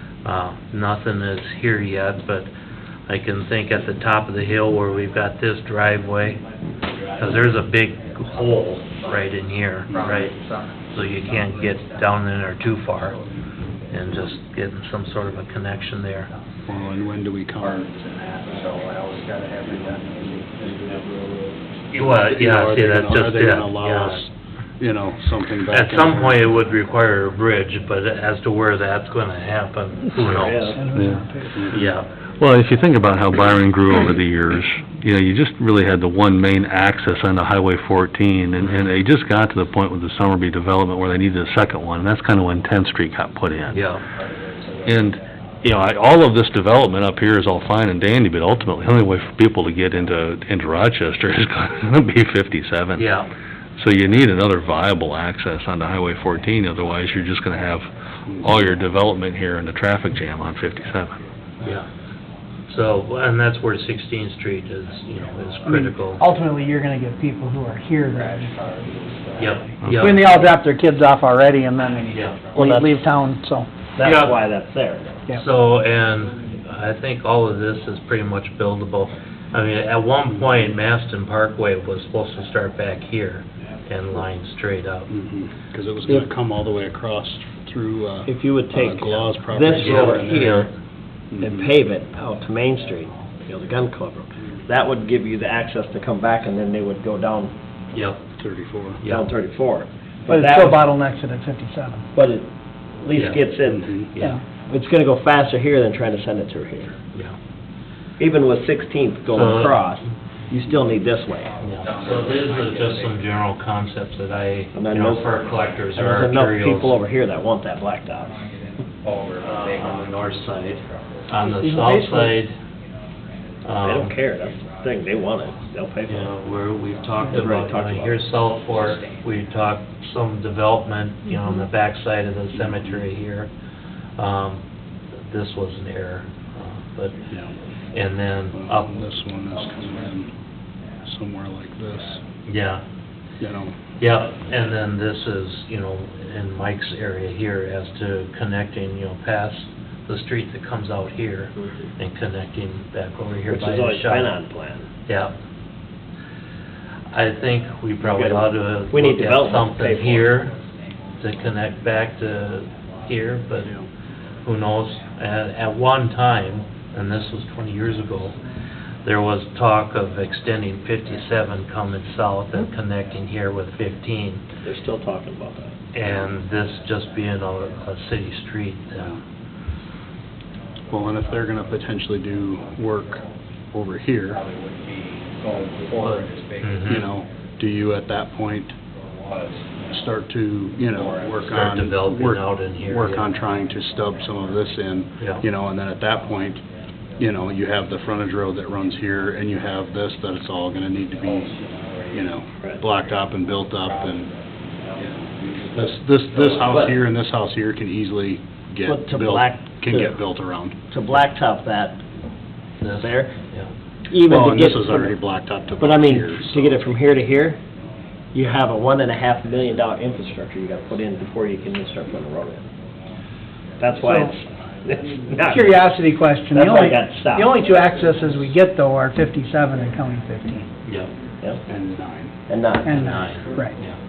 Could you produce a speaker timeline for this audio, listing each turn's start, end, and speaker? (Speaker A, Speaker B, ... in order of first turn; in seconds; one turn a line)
Speaker A: 0.2-2.5
Speaker A: 3.1-6.4
Speaker A: 7.1-10.3
Speaker B: 10.0-10.7
Speaker A: 10.9-13.2
Speaker A: 13.9-16.3
Speaker C: 16.7-17.9
Speaker B: 17.6-21.5
Speaker C: 18.7-19.2
Speaker C: 19.7-21.0
Speaker A: 21.9-24.3
Speaker C: 21.9-26.5
Speaker A: 25.7-30.8
Speaker D: 30.3-30.8
Speaker E: 30.5-31.7
Speaker F: 30.9-31.2
Speaker C: 31.5-31.8
Speaker A: 31.7-32.1
Speaker F: 32.4-43.9
Speaker A: 43.7-44.0
Speaker F: 44.8-53.1
Speaker A: 53.0-53.3
Speaker F: 53.8-61.2
Speaker A: 61.6-61.9
Speaker A: 62.7-66.2
Speaker E: 65.6-73.7
Speaker B: 68.2-69.5
Speaker A: 69.4-70.5
Speaker A: 72.1-72.4
Speaker D: 72.5-72.9
Speaker D: 73.9-75.2
Speaker A: 74.0-74.4
Speaker A: 75.3-85.1
Speaker C: 85.1-90.7
Speaker D: 88.2-90.7
Speaker A: 89.8-90.7
Speaker C: 91.3-91.7
Speaker D: 91.4-97.5
Speaker A: 97.9-98.2
Speaker C: 98.4-99.0
Speaker A: 99.0-99.3
Speaker D: 99.0-100.8
Speaker E: 100.3-102.0
Speaker D: 102.1-102.5
Speaker D: 103.0-103.9
Speaker A: 103.1-103.4
Speaker C: 103.7-104.1
Speaker E: 104.2-104.4
Speaker D: 104.7-107.0
Speaker D: 108.2-111.5
Speaker A: 109.3-109.8
Speaker B: 111.5-113.0
Speaker A: 111.6-117.0
Speaker D: 114.7-115.4
Speaker D: 115.9-118.4
Speaker B: 118.3-122.0
Speaker A: 119.4-122.5
Speaker E: 121.5-122.3
Speaker A: 123.6-124.2
Speaker D: 123.8-126.3
Speaker A: 126.1-133.5
Speaker D: 127.3-128.2
Speaker B: 128.8-129.0
Speaker C: 132.6-133.0
Speaker A: 134.2-134.6
Speaker A: 135.2-137.2
Speaker A: 137.9-139.0
Speaker C: 138.5-140.3
Speaker C: 141.0-142.2
Speaker A: 142.4-142.8
Speaker C: 143.4-143.8
Speaker A: 144.0-154.3
Speaker D: 151.6-151.9
Speaker D: 153.5-154.9
Speaker A: 155.1-155.3
Speaker A: 157.1-160.5
Speaker D: 158.0-160.3
Speaker A: 161.2-163.7
Speaker A: 164.4-168.4
Speaker A: 169.0-174.4
Speaker D: 174.6-175.7
Speaker A: 175.9-179.2
Speaker C: 180.9-184.4
Speaker B: 184.5-186.8
Speaker A: 185.9-187.1
Speaker C: 186.8-188.8
Speaker B: 189.2-189.6
Speaker C: 189.9-196.6
Speaker B: 190.9-191.5
Speaker A: 191.5-193.3
Speaker C: 197.2-201.6
Speaker B: 201.1-202.3
Speaker C: 202.1-204.3
Speaker B: 203.8-204.3
Speaker B: 204.9-206.9
Speaker C: 205.7-210.8
Speaker D: 206.6-206.9
Speaker D: 208.8-210.2
Speaker D: 210.9-212.0
Speaker A: 212.8-213.7
Speaker D: 213.0-213.3
Speaker D: 214.1-215.1
Speaker C: 214.2-216.9
Speaker D: 215.8-217.6
Speaker D: 218.3-222.7
Speaker D: 223.8-225.9
Speaker E: 224.0-224.3
Speaker E: 225.4-230.7
Speaker D: 226.5-227.7
Speaker A: 230.8-231.1
Speaker C: 231.7-232.3
Speaker D: 232.5-233.4
Speaker E: 232.8-233.8
Speaker A: 232.9-234.0